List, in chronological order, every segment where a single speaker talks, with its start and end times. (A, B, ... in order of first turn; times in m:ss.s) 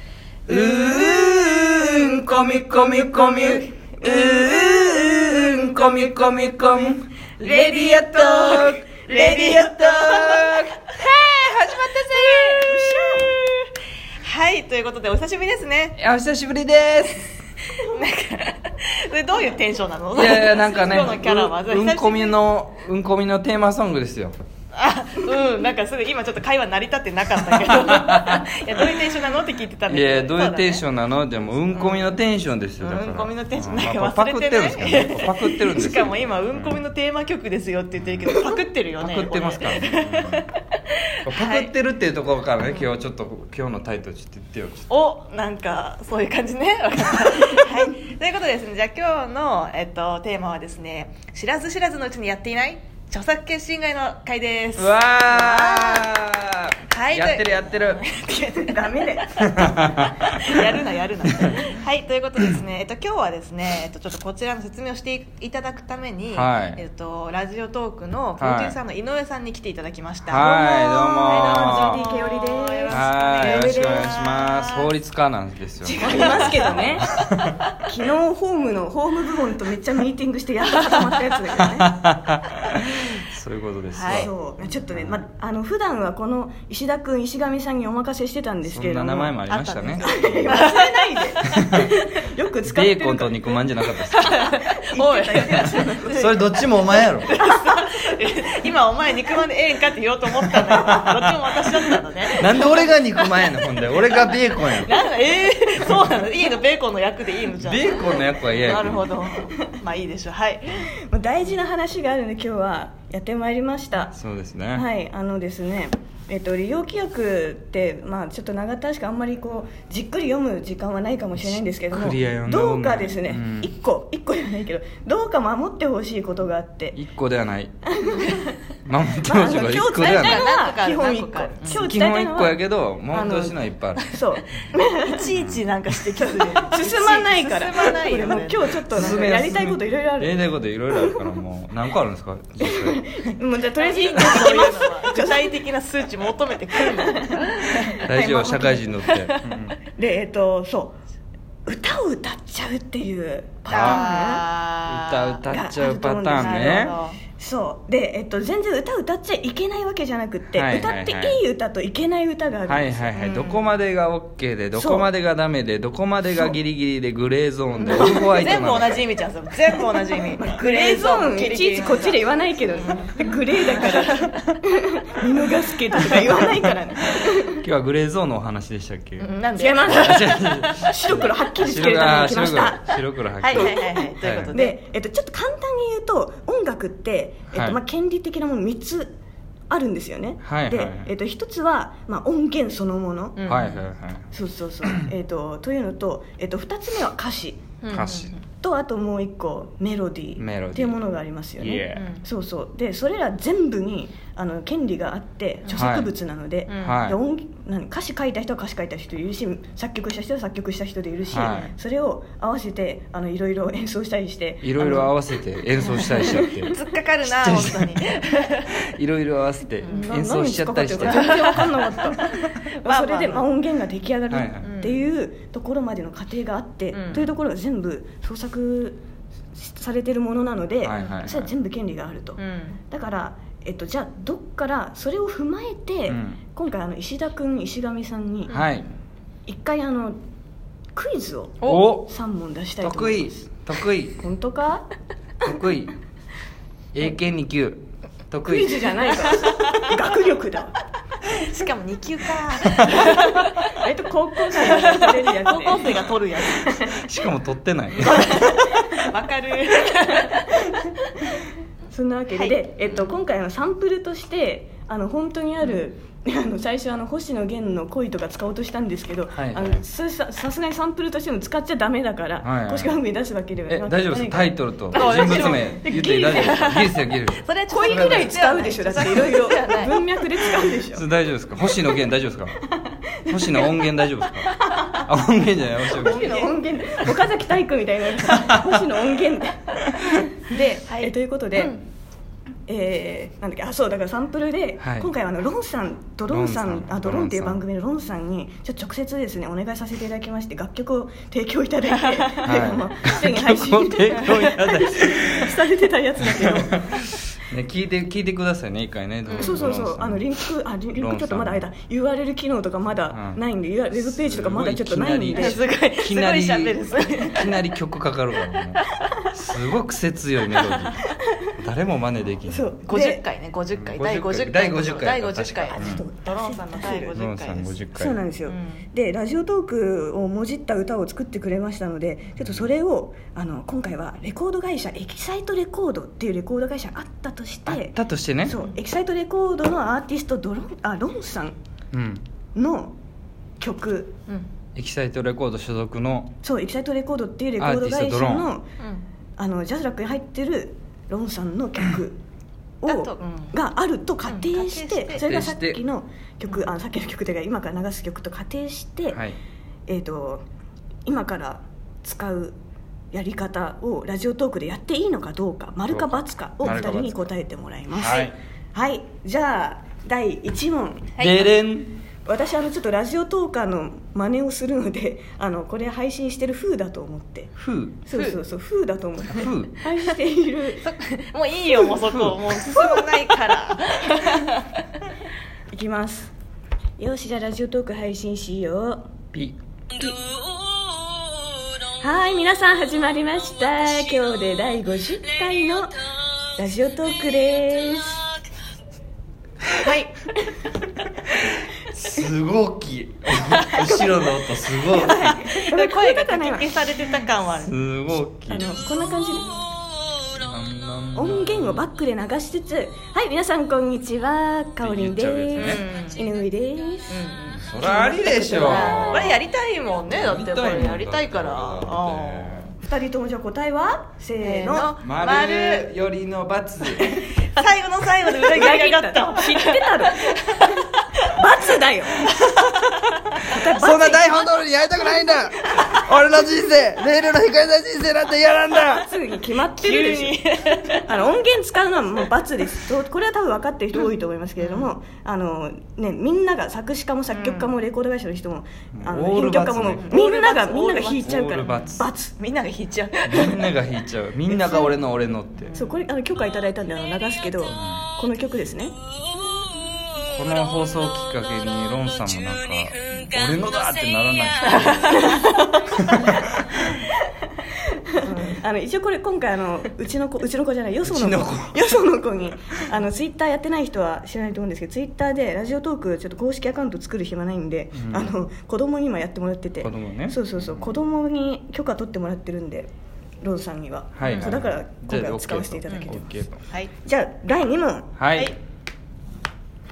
0:00.5-0:13.3 A
0:07.4-0:10.6 B
0:11.7-0:13.4 B
0:12.6-0:13.3 C
0:14.2-0:16.0 B
0:16.0-0:17.3 A
0:17.7-0:22.4 B
0:20.1-0:24.3 A
0:24.7-0:30.8 B
0:27.7-0:28.4 A
0:29.9-0:36.8 A
0:31.7-0:32.2 B
0:32.8-0:41.7 B
0:38.0-0:38.4 A
0:39.0-0:40.4 A
0:41.2-0:44.9 A
0:44.9-0:56.1 B
0:54.8-0:58.0 A
0:56.9-0:59.2 B
0:58.3-1:00.4 C
0:59.5-1:00.3 A
1:00.2-1:10.5 B
1:01.3-1:01.6 A
1:06.3-1:06.8 A
1:08.4-1:08.8 A
1:10.3-1:12.0 A
1:10.3-1:14.1 C
1:11.2-1:14.9 B
1:12.9-1:17.6 A
1:15.8-1:17.0 B
1:16.0-1:17.1 C
1:17.8-1:22.0 C
1:21.9-1:24.3 A
1:23.9-1:24.3 B
1:24.1-1:29.4 C
1:24.9-1:25.2 A
1:28.6-1:30.6 A
1:29.5-1:31.4 B
1:30.0-1:33.6 C
1:31.6-1:31.9 A
1:32.7-1:34.4 A
1:34.1-1:50.9 B
1:34.6-1:36.1 C
1:35.6-1:37.3 A
1:40.9-1:41.3 A
1:42.4-1:44.9 A
1:47.6-1:49.1 A
1:50.8-1:54.2 C
1:54.1-1:54.8 A
1:54.7-2:07.0 C
2:01.4-2:03.7 A
2:06.9-2:07.7 A
2:07.8-2:08.6 C
2:08.8-2:10.4 A
2:09.2-2:15.2 C
2:10.0-2:11.8 B
2:11.6-2:14.1 A
2:14.7-2:18.8 B
2:15.3-2:15.6 A
2:16.2-2:21.2 C
2:18.9-2:23.1 A
2:22.6-2:25.5 C
2:23.8-2:28.0 B
2:26.8-2:28.9 C
2:28.0-2:29.8 A
2:29.1-2:29.6 B
2:29.9-2:31.0 C
2:31.6-2:34.4 C
2:33.7-2:35.4 B
2:33.7-2:34.1 A
2:34.8-2:37.0 A
2:35.5-2:43.1 C
2:36.4-2:37.2 B
2:40.5-2:41.4 A
2:42.7-2:49.0 A
2:43.1-2:43.7 B
2:44.7-2:45.1 C
2:47.8-2:54.4 B
2:50.4-2:57.6 C
2:56.3-2:56.6 A
2:57.6-2:59.3 A
2:59.2-3:00.9 B
2:59.6-3:00.3 C
2:59.8-3:04.5 A
3:00.8-3:09.2 C
3:03.4-3:04.8 B
3:07.5-3:07.8 A
3:09.7-3:13.4 C
3:10.4-3:11.1 A
3:13.4-3:13.8 B
3:13.5-3:14.3 A
3:14.3-3:17.7 C
3:17.8-3:18.4 B
3:17.9-3:18.3 A
3:18.6-3:35.1 C
3:20.4-3:21.0 A
3:21.6-3:22.0 A
3:21.9-3:22.2 B
3:25.7-3:26.1 A
3:26.7-3:27.1 B
3:26.8-3:27.2 A
3:31.3-3:31.7 A
3:31.4-3:31.7 B
3:34.6-3:38.2 A
3:35.8-3:36.4 C
3:35.9-3:38.8 B
3:38.8-3:41.8 A
3:39.8-3:40.1 B
3:39.8-3:49.0 C
3:41.0-3:43.4 B
3:44.3-3:44.7 A
3:44.6-3:45.0 B
3:46.9-3:47.3 B
3:49.5-3:58.5 C
3:50.8-3:51.5 A
3:52.4-3:52.8 B
3:56.1-3:56.4 A
3:58.5-3:58.7 B
3:58.5-3:58.9 A
3:59.5-4:00.2 C
4:00.9-4:03.6 C
4:01.6-4:01.9 B
4:01.6-4:02.1 A
4:02.8-4:04.2 A
4:04.1-4:04.8 C
4:05.4-4:05.9 A
4:06.9-4:08.9 A
4:08.4-4:10.7 C
4:09.3-4:09.8 B
4:11.3-4:13.8 B
4:12.8-4:16.0 C
4:14.5-4:17.0 B
4:16.7-4:18.4 A
4:18.0-4:21.2 B
4:21.9-4:36.7 C
4:22.3-4:23.1 B
4:29.3-4:29.8 A
4:32.4-4:33.0 A
4:33.7-4:38.3 A
4:34.9-4:40.5 B
4:37.7-4:41.1 C
4:40.9-4:42.6 A
4:42.6-4:43.7 C
4:43.3-4:46.5 A
4:44.5-4:44.9 B
4:44.6-4:45.0 C
4:45.9-4:46.6 B
4:45.9-4:51.8 C
4:48.2-4:48.9 A
4:50.9-4:51.8 B
4:52.7-5:06.9 C
4:54.8-4:55.1 A
4:56.3-4:57.6 A
5:02.4-5:05.5 A
5:07.5-5:10.3 A
5:09.2-5:09.6 B
5:09.4-5:15.6 C
5:10.9-5:11.6 A
5:13.1-5:13.4 A
5:13.9-5:22.7 A
5:15.3-5:17.6 B
5:18.5-5:18.8 B
5:20.5-5:21.0 B
5:22.5-5:23.2 C
5:22.8-5:27.8 B
5:23.8-5:26.0 A
5:25.8-5:27.2 C
5:27.1-5:28.2 A
5:27.9-5:41.5 C
5:28.4-5:28.8 B
5:32.4-5:32.7 A
5:37.7-5:38.6 A
5:41.9-5:42.2 A
5:42.5-5:42.9 C
5:43.6-5:44.2 C
5:44.8-5:46.3 A
5:46.4-5:48.6 C
5:47.6-5:48.5 A
5:49.4-5:52.2 C
5:52.8-5:59.2 C
5:52.9-5:53.5 B
5:54.2-5:55.3 B
5:55.1-5:55.8 A
5:59.1-5:59.4 A
5:59.9-6:00.4 C
6:01.0-6:02.6 C
6:03.1-6:11.1 C
6:06.6-6:07.3 A
6:07.9-6:08.3 A
6:11.2-6:11.5 B
6:11.2-6:12.0 A
6:12.2-6:20.8 C
6:17.6-6:18.0 A
6:18.1-6:18.4 B
6:19.3-6:19.8 A
6:20.8-6:24.7 B
6:22.1-6:22.4 A
6:25.7-6:26.3 C
6:27.0-6:29.1 C
6:32.0-6:35.9 C
6:36.6-6:38.3 C
6:39.8-6:40.2 B
6:41.9-6:45.4 A
6:43.5-6:43.9 B
6:43.8-6:46.8 C
6:45.3-6:47.7 B
6:47.5-6:48.7 A
6:48.5-6:49.6 C
6:50.3-6:51.9 A
6:51.1-6:59.3 C
6:54.8-6:55.8 A
6:55.6-6:56.2 B
6:57.1-6:57.6 B
6:57.6-6:59.4 A
6:58.5-7:02.7 B
7:00.1-7:02.7 A
7:02.8-7:04.9 C
7:04.4-7:05.9 B
7:05.0-7:07.3 A
7:07.4-7:11.0 B
7:08.3-7:12.2 C
7:12.3-7:13.0 B
7:13.4-7:14.4 C
7:13.7-7:19.1 A
7:19.0-7:20.4 C
7:19.8-7:21.1 B
7:21.0-7:32.3 C
7:24.6-7:24.9 B
7:27.3-7:27.7 B
7:28.9-7:30.1 A
7:30.0-7:33.7 B
7:31.2-7:32.0 A
7:33.2-7:35.7 A
7:34.5-7:34.9 C
7:35.7-7:36.0 B
7:35.7-7:38.9 C
7:37.7-7:38.0 A
7:40.3-7:45.4 A
7:44.6-7:45.8 B
7:46.0-7:46.4 A
7:48.2-8:06.3 C
7:48.2-7:48.6 B
7:51.0-7:51.8 A
7:57.9-7:58.3 A
7:59.8-8:00.9 A
8:04.2-8:06.6 A
8:04.2-8:04.5 B
8:07.0-8:08.1 C
8:08.2-8:08.5 A